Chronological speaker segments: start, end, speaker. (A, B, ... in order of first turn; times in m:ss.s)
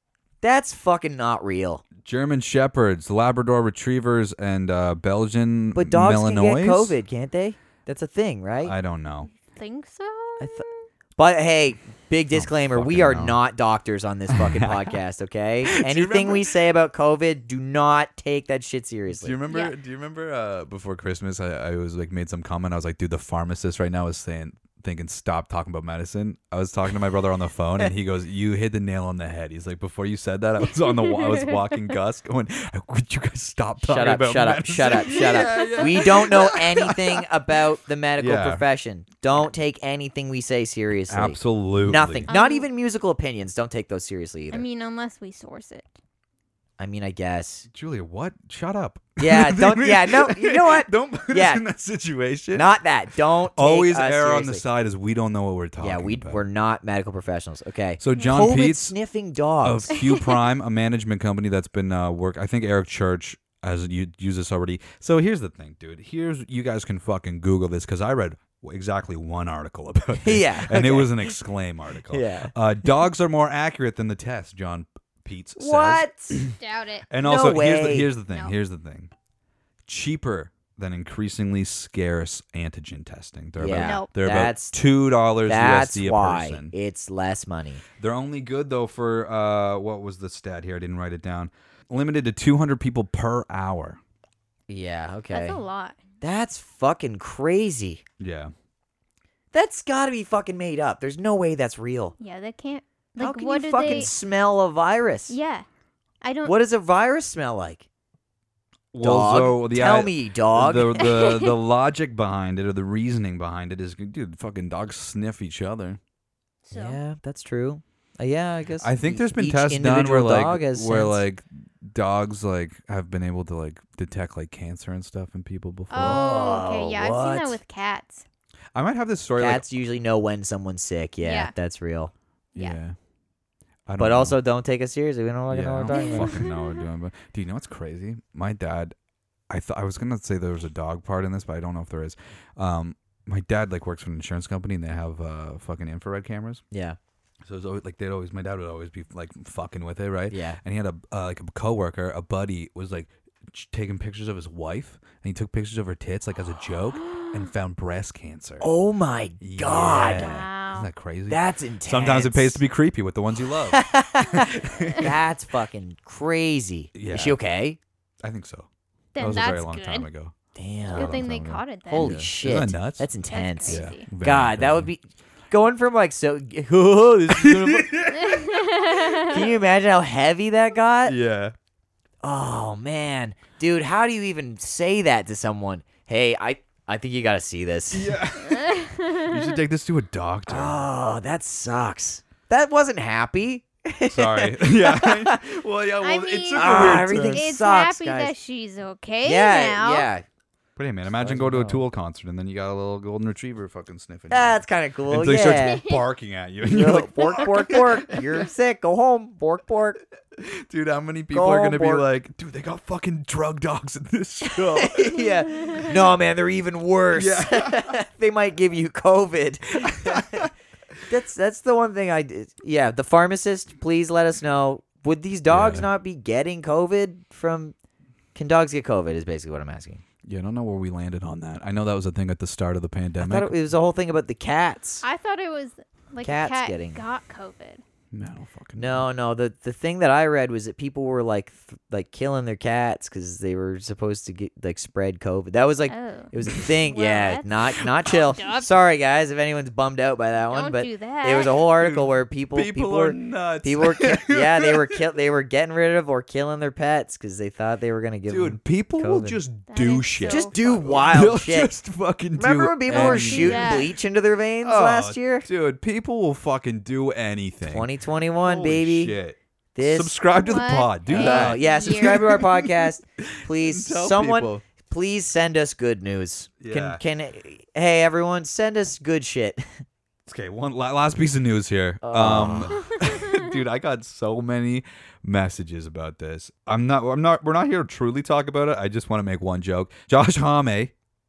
0:00.4-0:01.8 A
0:02.0-0:07.0 B
0:05.8-0:08.7 A
0:08.6-0:09.3 B
0:09.4-0:10.8 C
0:10.4-0:10.7 A
0:11.2-0:19.4 A
0:12.3-0:13.4 B
0:14.3-0:15.0 B
0:15.6-0:16.5 B
0:19.1-0:37.3 B
0:19.5-0:19.7 C
0:30.7-0:31.6 C
0:33.8-0:44.6 A
0:35.0-0:36.0 C
0:38.2-0:38.6 B
0:41.1-0:42.3 B
0:42.3-0:42.7 C
0:44.5-0:46.0 C
0:46.8-0:47.7 A
0:47.7-0:52.7 B
0:49.2-0:51.6 A
0:52.5-0:54.6 A
0:53.4-0:56.4 B
0:55.8-1:00.0 A
0:58.0-0:59.0 B
0:58.2-0:58.4 C
0:59.6-1:16.6 B
1:10.2-1:11.4 A
1:12.1-1:12.6 A
1:15.6-1:16.4 A
1:16.6-1:17.1 C
1:17.1-1:19.1 B
1:17.2-1:18.1 A
1:19.9-1:26.7 B
1:23.6-1:24.8 A
1:23.8-1:24.1 C
1:25.4-1:27.8 A
1:28.0-1:34.0 B
1:34.7-1:35.6 A
1:35.3-1:36.0 C
1:36.2-1:38.0 A
1:38.2-1:38.5 B
1:39.5-1:42.2 A
1:42.2-1:44.1 C
1:43.2-1:45.4 A
1:45.3-1:45.7 C
1:46.2-1:46.6 C
1:46.4-1:47.9 A
1:48.9-1:56.0 B
1:49.0-1:51.1 A
1:51.0-1:51.5 C
1:56.6-1:57.0 C
1:56.7-2:01.2 A
1:58.8-2:06.2 B
2:05.9-2:08.2 C
2:06.0-2:07.6 A
2:08.8-2:09.6 B
2:09.4-2:12.1 A
2:11.2-2:11.5 C
2:12.6-2:13.0 B
2:13.9-2:14.4 B
2:14.0-2:16.4 A
2:15.5-2:19.0 B
2:15.9-2:16.8 C
2:19.5-2:26.6 B
2:26.7-2:27.0 A
2:27.4-2:38.7 B
2:30.3-2:30.6 A
2:38.6-2:40.5 A
2:39.4-2:45.1 B
2:39.8-2:40.9 C
2:41.3-2:42.6 A
2:43.4-2:47.8 A
2:46.9-2:47.4 B
2:48.2-2:50.3 B
2:49.2-2:50.1 C
2:50.6-2:58.1 A
2:50.9-2:52.2 C
2:50.9-2:51.3 B
2:51.9-2:53.1 B
2:53.3-2:54.0 C
2:53.7-2:54.9 B
2:57.3-2:58.6 B
2:58.1-2:59.4 C
2:59.2-3:01.2 A
3:01.0-3:01.6 B
3:02.2-3:08.2 A
3:07.9-3:10.9 B
3:08.5-3:09.4 C
3:10.5-3:15.4 A
3:14.1-3:17.5 B
3:16.0-3:20.1 C
3:16.5-3:18.3 A
3:19.2-3:20.2 A
3:20.8-3:28.4 B
3:21.2-3:21.8 A
3:24.3-3:25.8 A
3:25.3-3:26.0 C
3:26.6-3:30.0 A
3:30.4-3:35.3 B
3:31.3-3:32.1 A
3:34.4-3:40.5 A
3:37.1-3:38.0 B
3:39.8-3:40.5 B
3:41.1-3:47.8 A
3:45.5-3:45.9 B
3:48.4-3:50.0 A
3:50.2-3:53.5 B
3:53.2-3:55.1 A
3:55.0-3:57.8 C
3:56.2-3:57.0 A
3:58.1-3:59.1 B
3:58.8-4:19.4 A
4:05.9-4:08.7 C
4:10.5-4:11.6 C
4:11.8-4:15.0 B
4:18.3-4:23.9 B
4:19.7-4:21.0 C
4:20.2-4:21.7 A
4:22.4-4:25.5 A
4:22.9-4:23.9 C
4:24.6-4:27.9 B
4:27.6-4:29.2 A
4:28.4-4:32.6 B
4:29.8-4:30.1 A
4:30.3-4:32.5 C
4:31.1-4:39.8 A
4:33.2-4:34.6 B
4:36.6-4:37.0 B
4:40.3-4:50.9 B
4:42.0-4:42.9 A